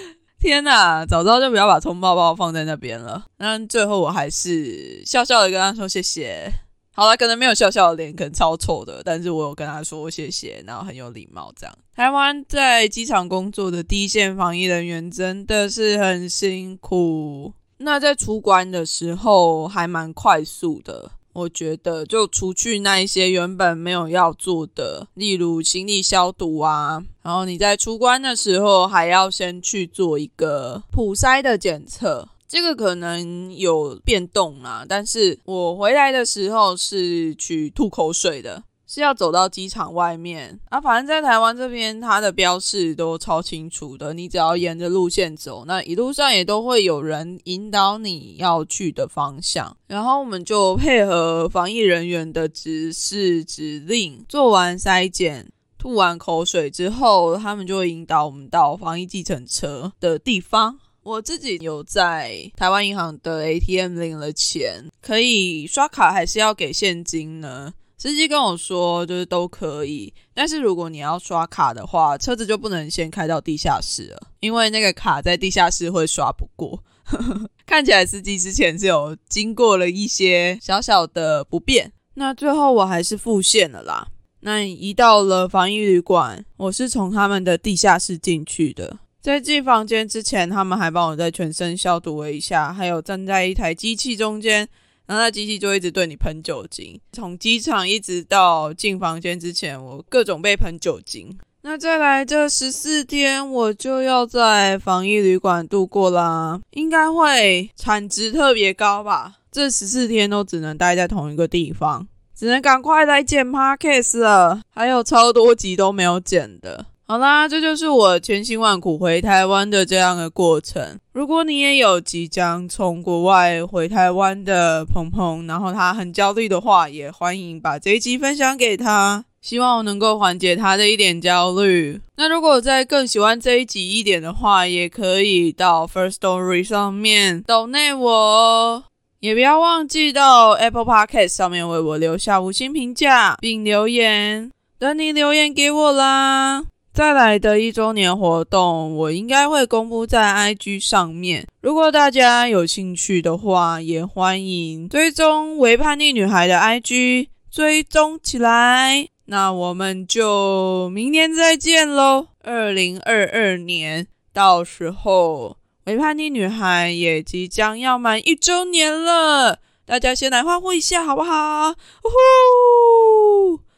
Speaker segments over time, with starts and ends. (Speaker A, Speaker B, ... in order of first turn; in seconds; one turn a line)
Speaker A: 0.4-173.2